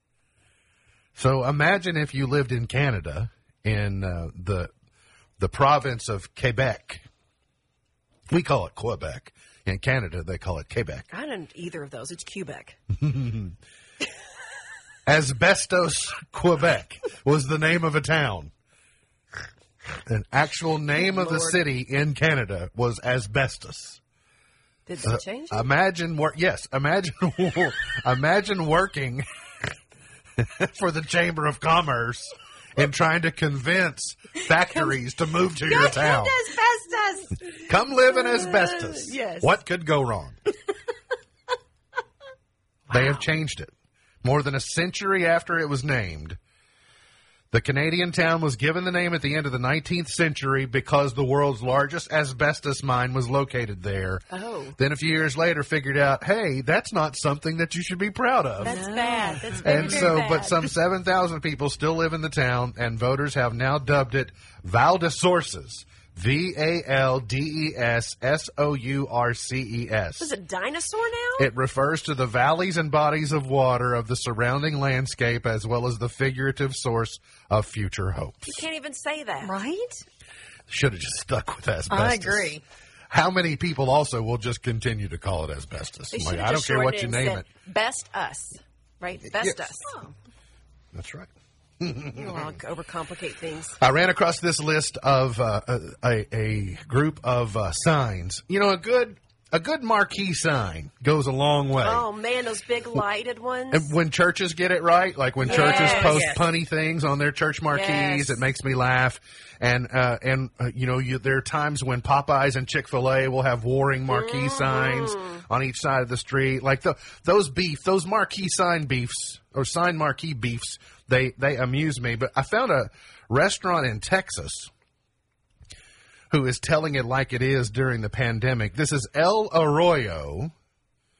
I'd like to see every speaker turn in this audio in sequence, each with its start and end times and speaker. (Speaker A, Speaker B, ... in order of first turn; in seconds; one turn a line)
Speaker A: 1.1-4.7
Speaker A: 5.4-7.0
Speaker A: 8.3-11.1
Speaker B: 11.1-12.8
Speaker A: 12.9-13.6
Speaker A: 15.1-18.5
Speaker A: 20.1-24.0
Speaker B: 21.1-21.6
Speaker B: 24.9-25.7
Speaker A: 25.0-29.2
Speaker A: 30.4-36.4
Speaker B: 35.7-37.7
Speaker A: 37.6-40.4
Speaker B: 38.3-39.5
Speaker A: 42.9-46.4
Speaker A: 47.5-54.2
Speaker B: 54.3-54.8
Speaker A: 54.8-58.8
Speaker B: 58.6-60.7
Speaker C: 58.6-60.1
Speaker A: 59.5-70.3
Speaker B: 70.2-71.5
Speaker A: 71.4-78.7
Speaker B: 78.5-79.5
Speaker C: 79.4-80.0
Speaker A: 80.7-82.6
Speaker C: 81.9-82.6
Speaker A: 83.1-87.5
Speaker B: 86.1-90.1
Speaker A: 89.3-89.7
Speaker A: 90.9-92.5
Speaker B: 92.2-93.8
Speaker A: 93.8-102.1
Speaker B: 101.8-103.9
Speaker A: 103.7-124.7
Speaker B: 105.4-106.3
Speaker C: 105.5-106.4
Speaker B: 107.7-108.4
Speaker B: 114.5-115.4
Speaker A: 126.3-130.5